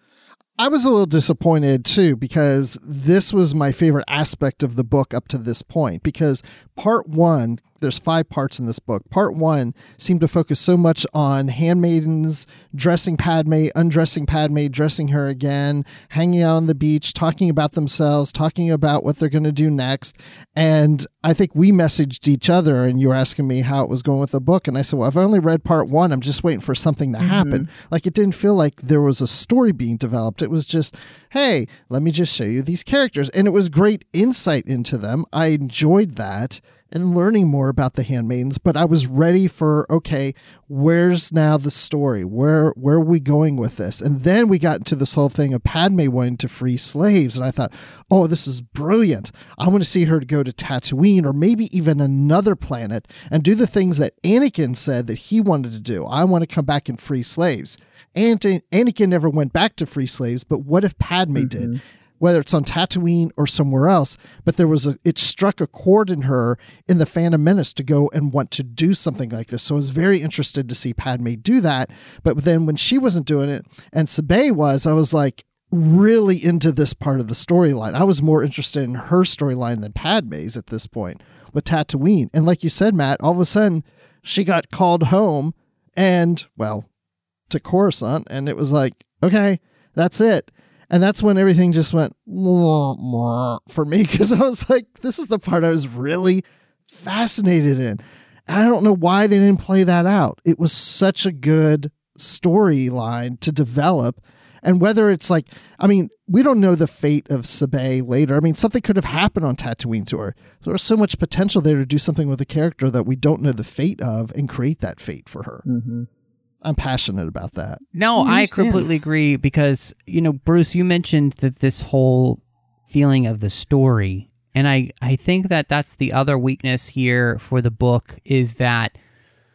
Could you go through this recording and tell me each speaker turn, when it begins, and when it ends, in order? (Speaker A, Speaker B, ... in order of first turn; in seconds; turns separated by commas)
Speaker A: 0.6-86.9, Speaker B: 27.2-27.7, Speaker B: 61.4-61.8, Speaker A: 87.5-115.6, Speaker B: 115.7-116.1, Speaker A: 116.6-117.8, Speaker C: 117.9-128.9, Speaker B: 118.2-118.8